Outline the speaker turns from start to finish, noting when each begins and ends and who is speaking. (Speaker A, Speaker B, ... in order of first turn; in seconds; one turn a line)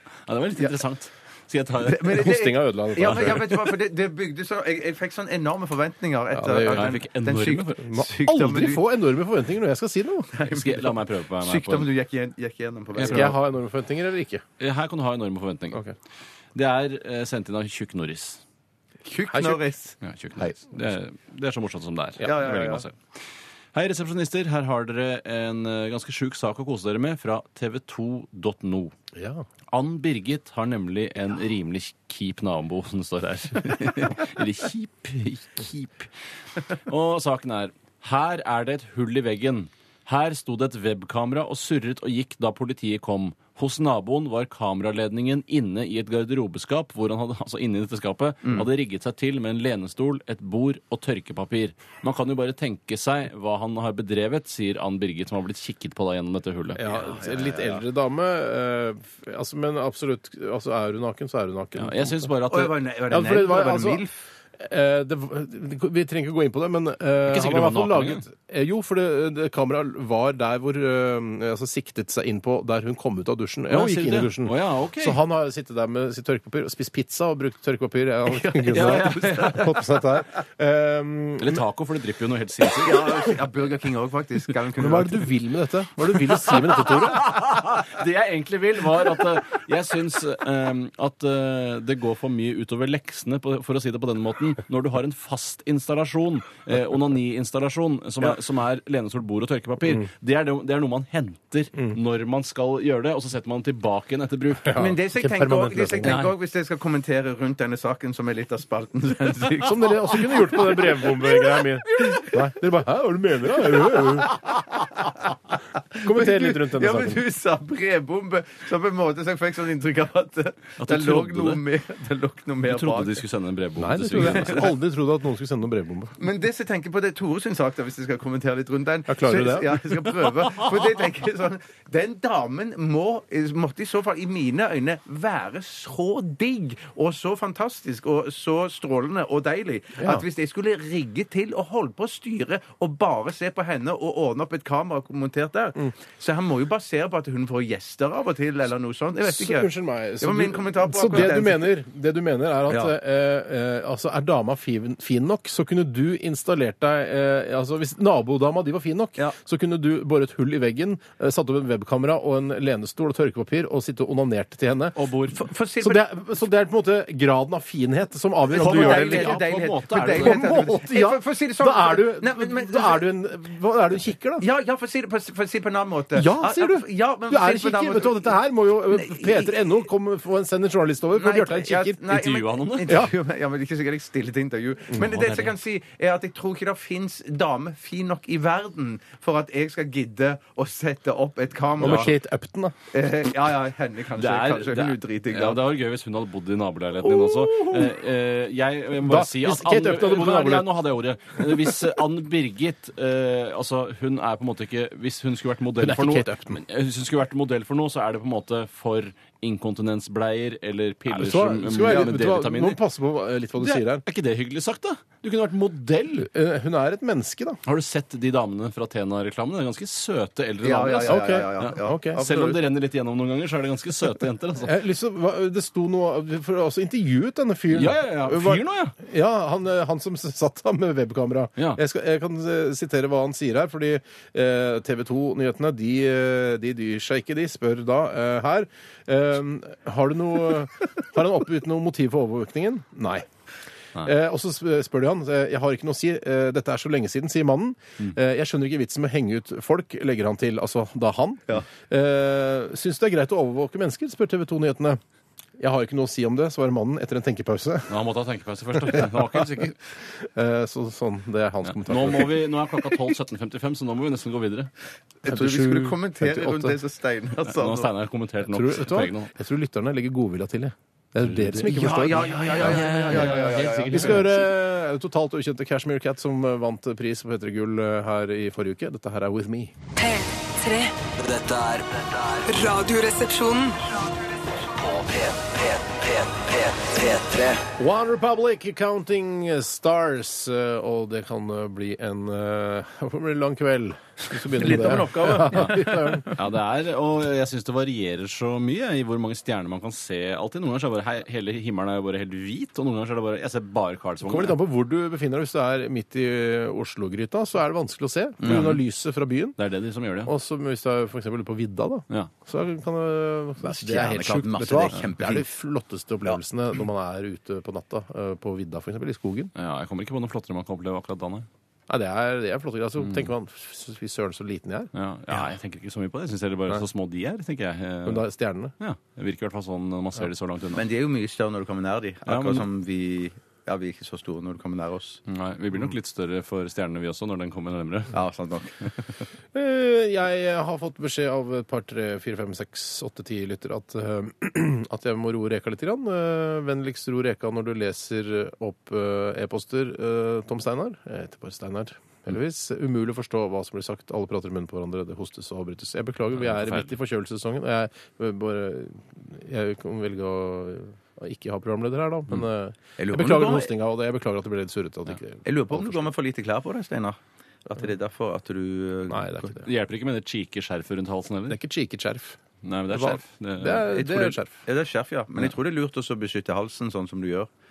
Speaker A: 0.3-2.3
Speaker B: 1.8-8.8
Speaker C: 2.0-3.7
Speaker A: 3.0-3.3
Speaker C: 6.3-7.0
Speaker A: 6.7-7.8
Speaker C: 7.8-10.3
Speaker B: 10.3-13.3
Speaker A: 10.4-11.9
Speaker A: 12.9-13.3
Speaker C: 13.1-14.4
Speaker A: 14.6-15.8
Speaker A: 16.5-18.4
Speaker B: 19.0-20.5
Speaker C: 19.3-19.6
Speaker A: 20.0-23.0
Speaker B: 22.2-22.8
Speaker A: 23.7-28.9
Speaker C: 29.1-29.4
Speaker A: 29.7-36.1
Speaker A: 36.8-56.8
Speaker C: 56.8-62.3
Speaker B: 56.8-57.8
Speaker A: 61.8-62.7
Speaker B: 62.5-64.1
Speaker C: 63.1-64.0
Speaker C: 64.6-81.6
Speaker A: 67.2-68.2
Speaker A: 73.7-75.2
Speaker B: 78.4-79.8
Speaker A: 78.7-79.7
Speaker A: 81.4-83.1
Speaker B: 82.8-85.3
Speaker C: 84.8-87.5
Speaker A: 86.8-104.8
Speaker C: 104.6-106.2
Speaker B: 104.8-112.5
Speaker A: 106.0-106.3
Speaker C: 109.6-114.4
Speaker B: 113.6-115.3
Speaker B: 115.9-123.2
Speaker C: 116.0-117.2
Speaker A: 120.8-121.6
Speaker A: 122.7-124.6
Speaker C: 123.8-126.1
Speaker B: 124.2-124.7
Speaker B: 126.2-151.7
Speaker C: 129.1-129.7
Speaker C: 140.0-140.2
Speaker C: 149.2-165.0
Speaker B: 152.7-152.9
Speaker A: 164.9-165.4
Speaker B: 165.3-166.1
Speaker C: 165.8-169.4
Speaker B: 168.5-173.0
Speaker A: 168.6-170.5
Speaker C: 169.9-174.4
Speaker B: 174.4-178.2
Speaker C: 176.1-182.0
Speaker B: 178.9-179.5
Speaker B: 181.1-192.1
Speaker A: 182.1-183.0
Speaker C: 182.9-183.1
Speaker A: 185.1-185.5
Speaker C: 191.8-192.8
Speaker B: 192.9-195.6
Speaker A: 194.2-212.8
Speaker C: 197.0-197.9
Speaker C: 199.0-200.7
Speaker C: 201.4-201.7
Speaker C: 205.8-206.6
Speaker C: 211.1-214.0
Speaker B: 211.8-212.1
Speaker A: 213.6-216.3
Speaker C: 216.2-217.6
Speaker A: 217.6-224.8
Speaker B: 220.6-222.6
Speaker C: 221.1-222.2
Speaker C: 224.6-243.3
Speaker A: 227.7-228.9
Speaker C: 244.0-255.0
Speaker C: 255.6-258.0
Speaker A: 257.9-259.8
Speaker C: 258.7-263.0
Speaker A: 261.6-264.7
Speaker B: 265.2-267.9
Speaker C: 265.2-266.8
Speaker A: 267.4-269.3
Speaker C: 268.5-279.7
Speaker A: 271.2-274.4
Speaker B: 271.6-274.3
Speaker D: 280.0-281.1
Speaker E: 281.1-282.5
Speaker D: 282.5-284.3
Speaker E: 284.6-287.6
Speaker C: 287.8-296.3
Speaker B: 294.6-296.3
Speaker A: 296.3-304.6
Speaker C: 304.2-309.6
Speaker A: 308.4-308.8
Speaker A: 309.6-310.3
Speaker C: 310.2-319.5
Speaker B: 313.6-315.5
Speaker A: 319.5-321.5
Speaker C: 321.9-324.9
Speaker A: 324.9-328.2
Speaker C: 328.0-328.7
Speaker A: 328.8-330.8
Speaker B: 330.7-335.2
Speaker A: 332.2-332.6
Speaker A: 335.3-338.1
Speaker B: 338.1-338.8
Speaker C: 339.5-366.1
Speaker A: 356.4-357.0
Speaker B: 363.0-363.7
Speaker B: 365.4-369.6
Speaker C: 369.1-369.7
Speaker A: 369.6-371.6
Speaker C: 371.5-374.5
Speaker A: 372.6-373.9
Speaker B: 373.9-377.5